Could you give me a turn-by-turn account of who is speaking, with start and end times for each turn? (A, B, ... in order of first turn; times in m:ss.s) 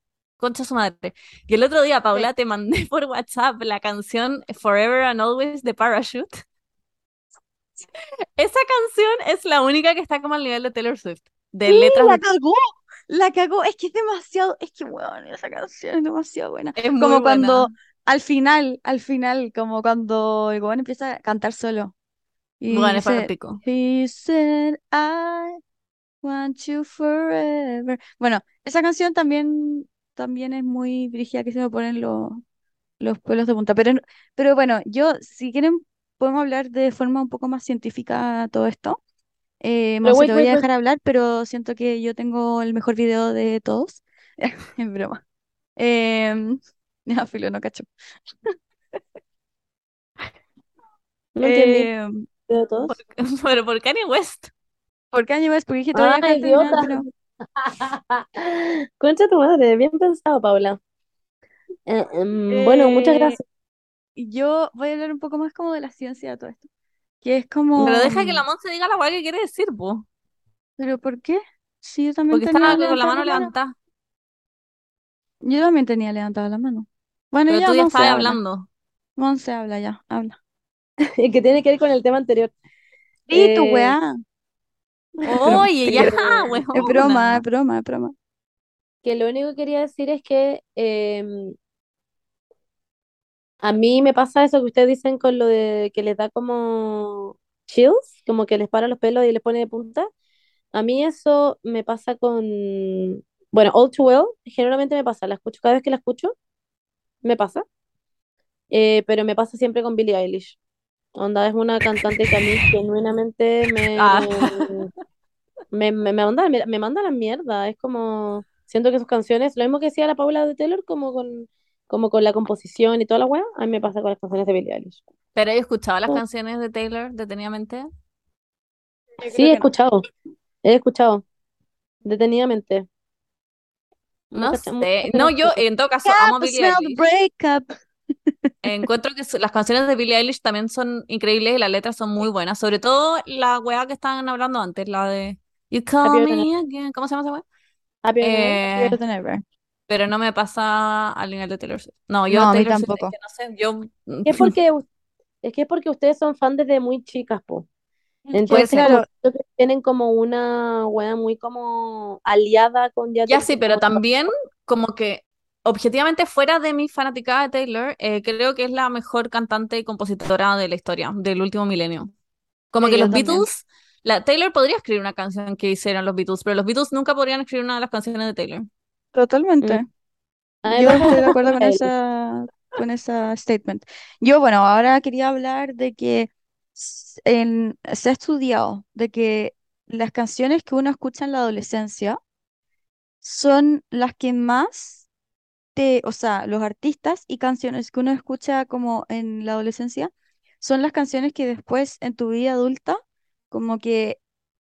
0:00.4-0:06.4 A
0:08.4-0:12.2 A
0:11.7-0:21.9 B
0:16.8-0:17.7 A
0:22.6-0:25.6 B
0:22.7-0:23.6 A
0:26.2-0:32.4 B
0:33.0-0:39.0 B
0:39.6-0:45.2 B
0:40.0-0:40.6 C
0:45.8-0:47.9 B
0:48.4-0:49.0 B
0:51.4-0:51.9 C
0:51.4-0:52.2 B
0:52.5-0:52.9 C
0:52.9-0:54.5 A
0:55.1-0:57.0 B
0:55.9-0:57.0 C
0:57.6-1:00.8 C
1:01.9-1:03.4 C
1:02.5-1:03.4 B
1:04.2-1:06.7 B
1:07.2-1:08.4 B
1:07.8-1:10.0 A
1:10.8-1:13.5 B
1:12.3-1:13.7 A
1:15.4-1:18.4 B
1:17.5-1:18.7 A
1:19.2-1:20.4 B
1:21.2-1:22.5 C
1:23.3-1:24.1 B
1:23.3-1:24.0 C
1:25.2-1:26.9 C
1:25.3-1:26.2 B
1:25.3-1:27.4 A
1:26.7-1:28.1 B
1:29.0-1:31.5 C
1:33.6-1:40.1 C
1:40.7-1:46.3 C
1:47.2-1:47.6 C
1:48.7-1:50.6 C
1:51.2-1:54.9 C
1:54.0-1:54.7 A
1:55.7-2:05.0 C
2:05.4-2:07.9 A
2:09.2-2:09.7 B
2:09.3-2:10.0 C
2:10.6-2:11.2 C
2:12.0-2:12.9 C
2:14.3-2:15.6 C
2:14.4-2:17.0 A
2:16.0-2:17.7 B
2:18.6-2:27.4 A
2:26.0-2:26.4 C
2:28.0-2:29.0 C
2:28.2-2:29.0 A
2:28.8-2:29.4 B
2:29.9-2:34.5 A
2:32.3-2:33.1 B
2:34.2-2:34.8 C
2:35.4-2:37.6 C
2:38.3-2:39.0 B
2:38.3-2:44.0 C
2:38.5-2:39.0 A
2:43.3-2:52.1 A
2:52.7-2:58.7 A
2:52.8-2:53.4 B
2:59.1-2:59.9 B
3:00.6-3:01.9 C
3:00.7-3:12.2 B
3:13.2-3:15.1 B
3:15.7-3:23.0 B
3:23.5-3:24.2 B